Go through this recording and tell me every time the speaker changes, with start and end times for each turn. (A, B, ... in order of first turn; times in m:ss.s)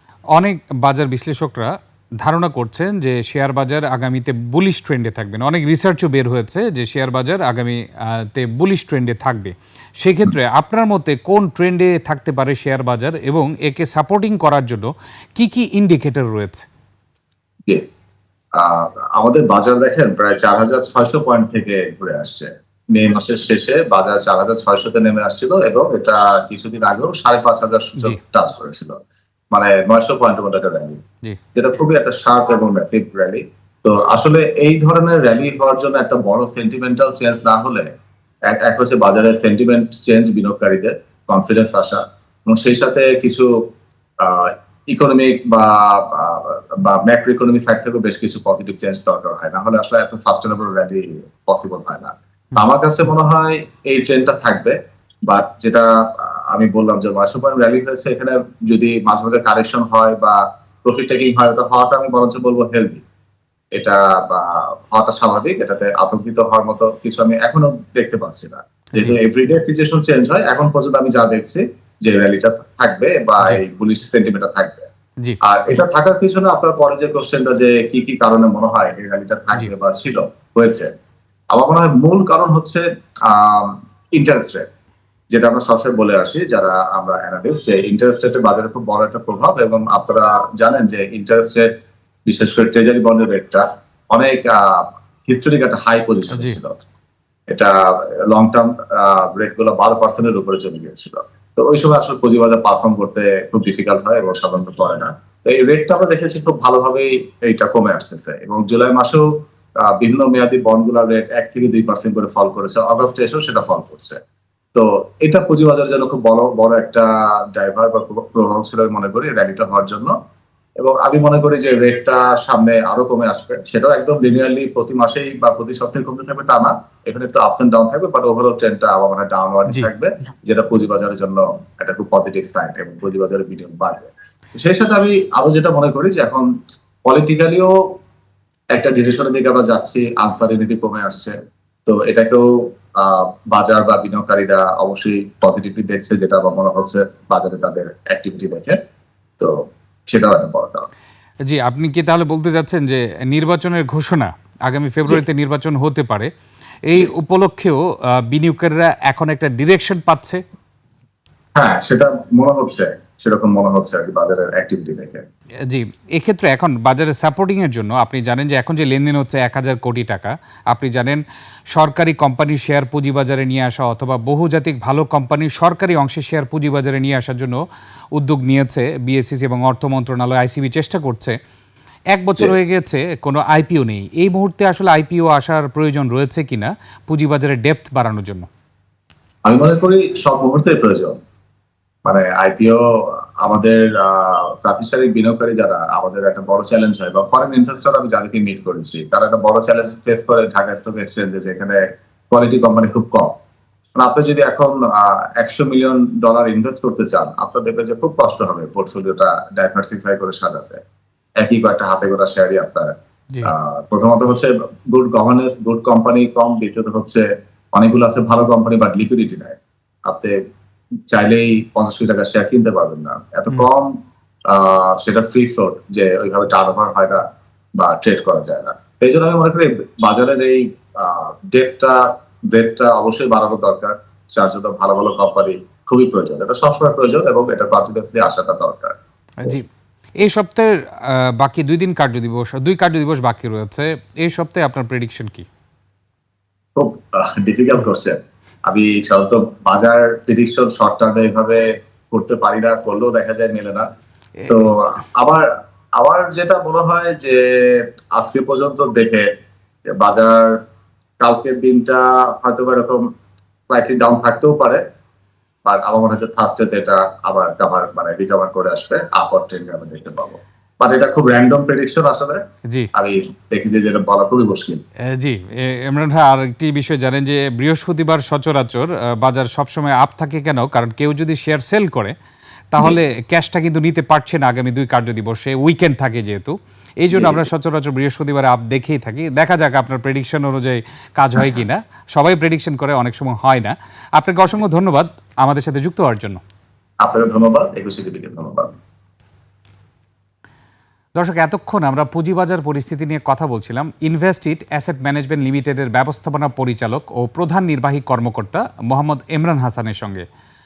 0:00.3-0:16.6 A
0:18.6-0:29.0 B
0:29.5-0:31.0 B
0:31.5-0:37.9 B
0:38.5-0:43.5 B
0:44.2-0:54.7 B
0:55.3-1:03.0 B
1:03.8-1:14.8 B
1:08.9-1:09.2 A
1:15.4-1:20.9 B
1:21.5-1:24.6 B
1:25.3-1:31.7 B
1:32.3-1:36.8 B
1:36.3-1:36.6 A
1:38.3-1:49.2 B
1:49.8-1:54.2 B
1:54.7-2:00.1 B
2:00.8-2:16.5 B
2:17.0-2:17.7 B
2:18.7-2:21.3 B
2:21.8-2:28.8 B
2:30.1-2:30.9 B
2:31.4-2:36.3 A
2:36.9-2:40.4 A
2:41.6-2:45.2 B
2:45.7-2:51.2 A
2:51.7-2:57.6 A
2:58.1-3:01.4 A
3:02.1-3:08.5 A
3:09.4-3:11.2 B
3:12.0-3:23.3 B
3:24.0-3:30.8 B
3:31.4-3:32.9 B
3:33.4-3:40.4 B
3:41.1-3:44.0 B
3:44.5-3:47.2 B
3:47.8-3:59.6 B
3:59.4-3:59.6 A
4:00.2-4:05.5 A
4:06.8-4:13.8 B
4:14.5-4:19.3 B
4:20.0-4:20.6 B
4:21.2-4:23.0 B
4:23.7-4:24.8 B
4:25.6-4:32.4 B
4:32.9-4:34.8 B
4:35.1-4:42.1 A
4:42.7-4:56.4 A
4:47.1-4:47.4 B
4:57.0-4:58.7 B
5:01.2-5:10.2 A